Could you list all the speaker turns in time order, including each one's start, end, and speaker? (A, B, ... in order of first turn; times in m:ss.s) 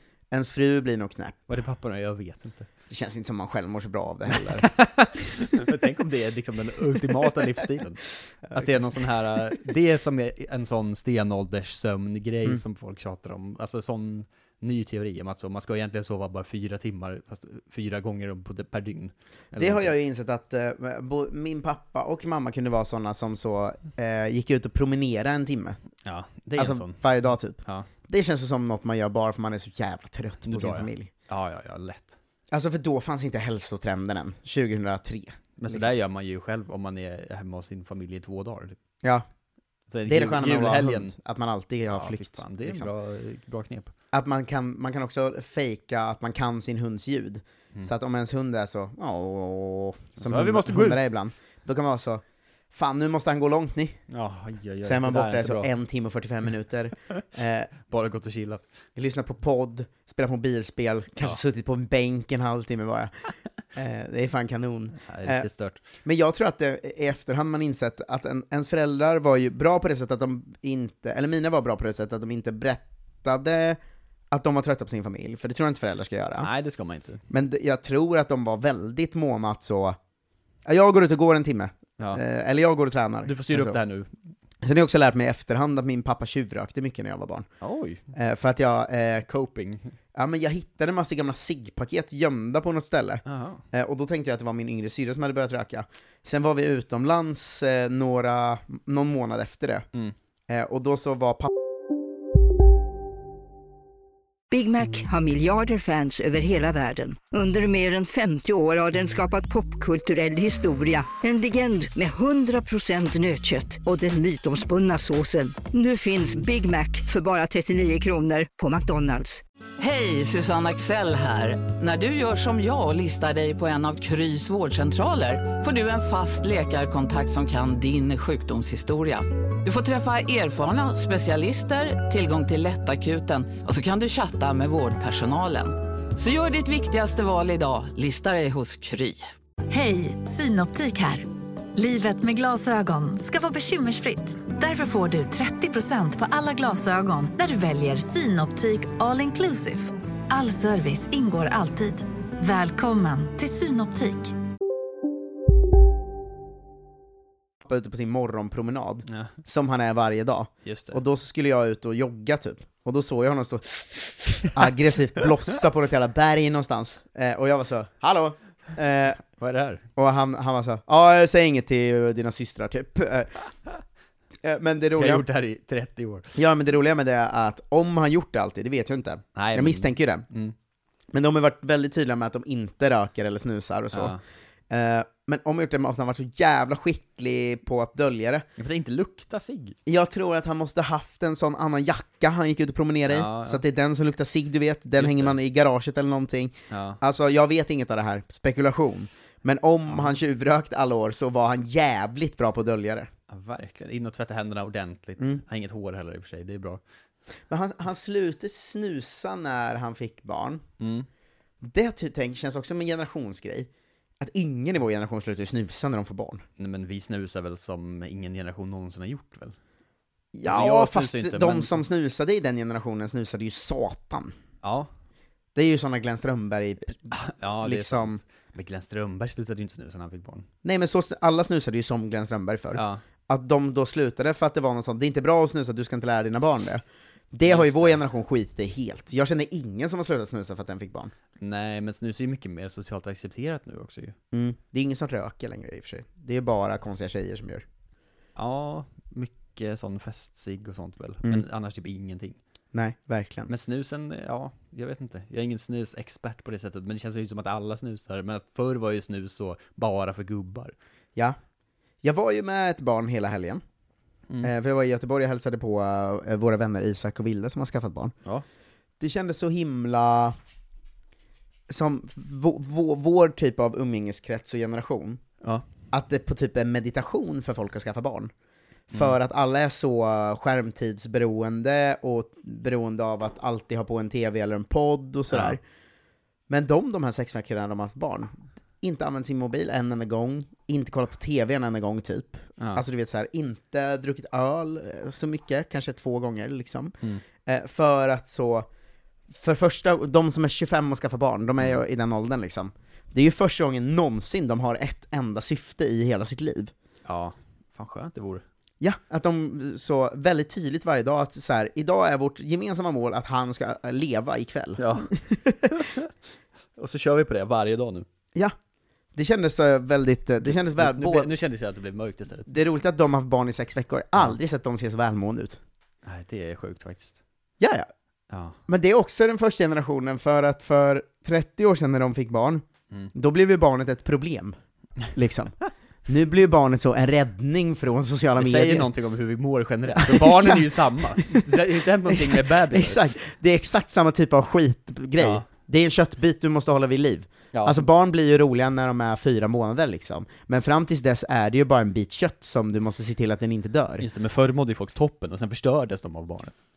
0:00.3-0:01.5 A
0:01.5-0:02.7 B
0:02.9-0:04.7 A
0:04.6-0:20.0 B
0:19.6-0:25.8 A
0:26.0-0:27.0 B
0:26.6-0:31.1 A
0:27.6-0:27.9 B
0:30.4-0:32.2 B
0:32.5-0:35.8 A
0:35.6-0:38.8 B
0:39.9-0:41.2 B
0:40.1-0:42.9 A
0:41.9-0:43.9 B
0:44.1-0:54.0 A
0:50.2-0:51.1 B
0:54.1-0:55.7 B
0:54.8-0:57.7 A
0:57.9-0:58.6 B
0:59.0-1:03.2 A
1:03.8-1:05.5 A
1:05.1-1:05.8 B
1:06.0-1:13.8 A
1:14.3-1:16.5 A
1:16.4-1:17.2 B
1:17.3-1:20.0 A
1:20.6-1:23.8 A
1:23.2-1:24.1 B
1:24.6-1:27.5 A
1:27.6-1:28.0 B
1:28.1-1:29.3 A
1:29.3-1:30.0 B
1:30.1-1:39.9 A
1:33.3-1:33.6 B
1:40.5-1:41.5 A
1:44.5-1:59.4 C
1:59.8-2:19.3 D
2:19.7-2:34.3 E
2:37.6-2:49.2 A
2:39.1-2:39.3 B
2:40.6-2:41.0 B
2:49.4-2:49.8 B
2:50.0-2:53.3 A
2:54.4-2:55.2 A
2:55.0-2:56.4 B
2:56.4-3:00.3 A
2:59.4-3:00.5 B
3:01.1-3:04.2 A
3:03.9-3:04.2 B
3:04.7-3:08.5 A
3:08.6-3:09.8 B
3:09.9-3:23.1 A
3:13.1-3:13.6 B
3:15.0-3:15.4 B
3:16.7-3:17.0 B
3:23.3-3:26.8 B
3:27.5-3:30.6 A
3:30.8-3:31.1 B
3:31.6-3:36.4 A
3:36.6-3:39.6 B
3:40.3-3:44.3 A
3:40.5-3:41.8 B
3:44.6-3:44.9 B
3:45.6-3:48.2 A
3:47.1-3:50.5 B
3:50.6-4:01.1 A
3:52.7-3:53.0 B
3:57.5-3:58.0 B
4:01.4-4:04.2 B
4:04.3-4:07.7 A
4:08.4-4:12.4 B
4:12.7-4:13.5 A
4:13.5-4:20.7 B
4:22.0-4:23.6 A
4:24.4-4:28.2 A
4:29.0-4:30.4 A
4:31.7-4:35.2 A
4:35.4-4:35.7 B
4:35.9-4:38.3 A
4:38.9-4:45.6 A
4:45.3-4:45.6 B
4:46.5-4:58.7 A
4:52.6-4:52.8 B
4:59.3-5:06.7 A
5:07.0-5:08.4 B
5:08.8-5:15.8 A
5:14.8-5:15.1 B
5:15.7-5:16.1 B
5:16.8-5:18.1 B
5:19.2-5:21.3 A
5:20.4-5:22.5 B
5:22.5-5:25.6 A
5:26.0-5:27.2 B
5:27.6-5:27.9 A
5:28.3-5:28.6 B
5:28.7-5:34.6 A
5:35.1-5:35.6 A
5:36.1-5:38.9 A
5:38.4-5:43.1 B
5:40.0-5:54.1 A
5:45.2-5:45.5 B
5:47.5-5:47.9 B
5:54.0-5:56.6 B